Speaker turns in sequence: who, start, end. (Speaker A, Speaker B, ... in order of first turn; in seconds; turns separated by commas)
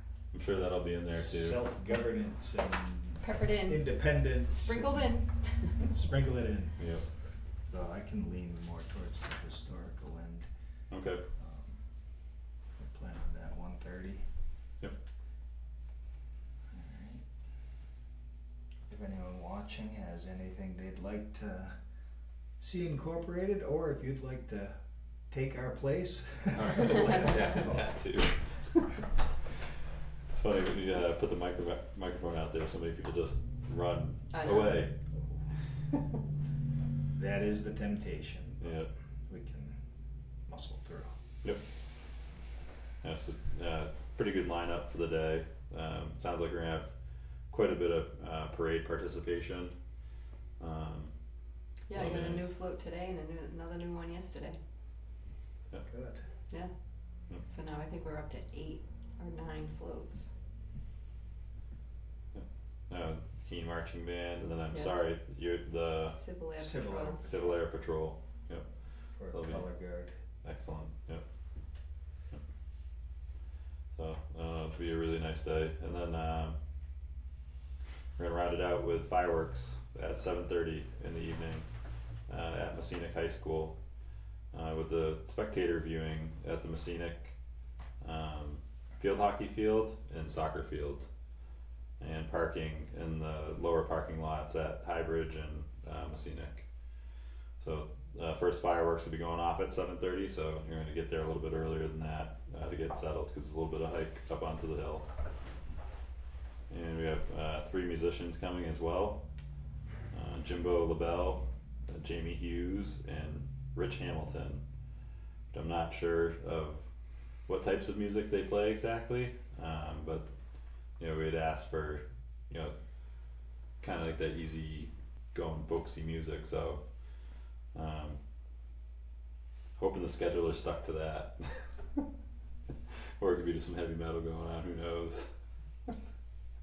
Speaker A: 0.3-1.6, Speaker B: 1.1-5.2, Speaker C: 3.2-5.8, Speaker B: 5.8-6.8, Speaker A: 6.8-7.0, Speaker B: 7.7-10.5, Speaker A: 10.9-11.2, Speaker B: 11.4-11.8, Speaker B: 12.8-14.2, Speaker B: 16.7-17.2, Speaker B: 18.9-21.7, Speaker B: 22.6-24.8, Speaker B: 25.3-27.9, Speaker A: 26.5-29.0, Speaker A: 30.3-34.9, Speaker C: 34.3-34.8, Speaker B: 37.1-39.8, Speaker A: 38.6-38.9, Speaker B: 40.5-41.1, Speaker A: 43.0-46.9, Speaker A: 47.5-49.7, Speaker A: 50.6-51.1, Speaker C: 51.9-54.6, Speaker A: 51.9-52.5, Speaker B: 55.8-56.2, Speaker C: 57.4-60.3, Speaker A: 62.3-66.2, Speaker C: 64.7-65.0, Speaker C: 65.9-67.4, Speaker B: 66.6-67.5, Speaker A: 67.2-68.6, Speaker B: 69.2-70.1, Speaker A: 69.3-69.7, Speaker A: 70.4-71.2, Speaker A: 73.9-76.6, Speaker A: 78.2-81.7, Speaker A: 82.3-83.7, Speaker A: 84.5-87.3, Speaker A: 88.0-91.1, Speaker A: 92.0-96.6, Speaker A: 97.6-105.1, Speaker A: 106.7-109.2, Speaker A: 110.1-114.6, Speaker A: 115.5-116.8, Speaker A: 117.5-120.3, Speaker A: 121.0-122.7, Speaker A: 123.8-126.8, Speaker A: 127.7-128.2, Speaker A: 129.8-132.1, Speaker A: 133.2-135.3